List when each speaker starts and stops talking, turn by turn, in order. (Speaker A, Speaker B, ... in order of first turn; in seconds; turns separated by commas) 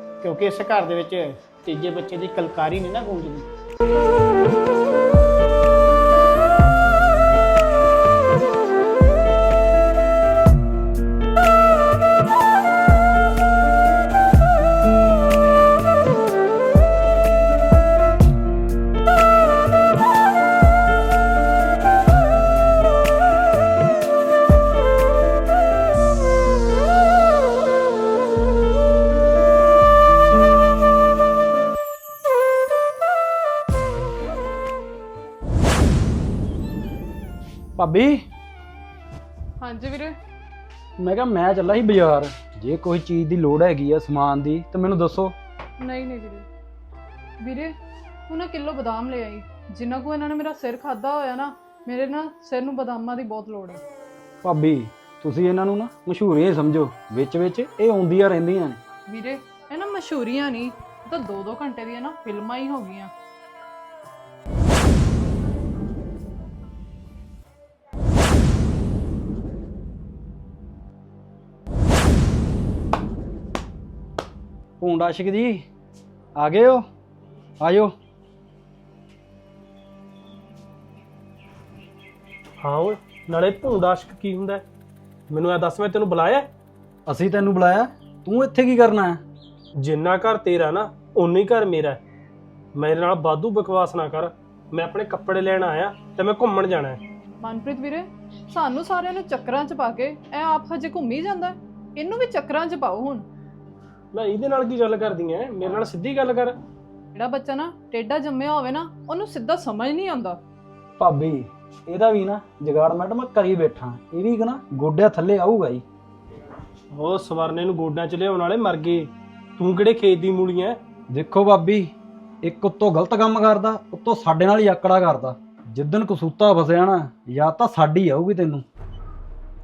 Speaker A: 0.2-3.5, Speaker B: 37.8-38.2, Speaker C: 39.6-40.1, Speaker B: 41.0-45.3, Speaker C: 45.8-46.5, Speaker C: 47.4-47.7, Speaker C: 48.3-53.8, Speaker B: 54.4-58.8, Speaker C: 59.1-63.1, Speaker B: 74.8-75.7, Speaker B: 76.3-76.8, Speaker B: 77.6-77.9, Speaker D: 82.6-84.6, Speaker D: 85.3-86.5, Speaker B: 87.1-89.2, Speaker D: 89.8-92.0, Speaker D: 92.7-97.0, Speaker C: 97.4-103.2, Speaker D: 104.1-106.5, Speaker C: 107.1-110.4, Speaker B: 111.0-115.8, Speaker D: 116.9-120.8, Speaker B: 121.1-121.9, Speaker B: 122.4-128.6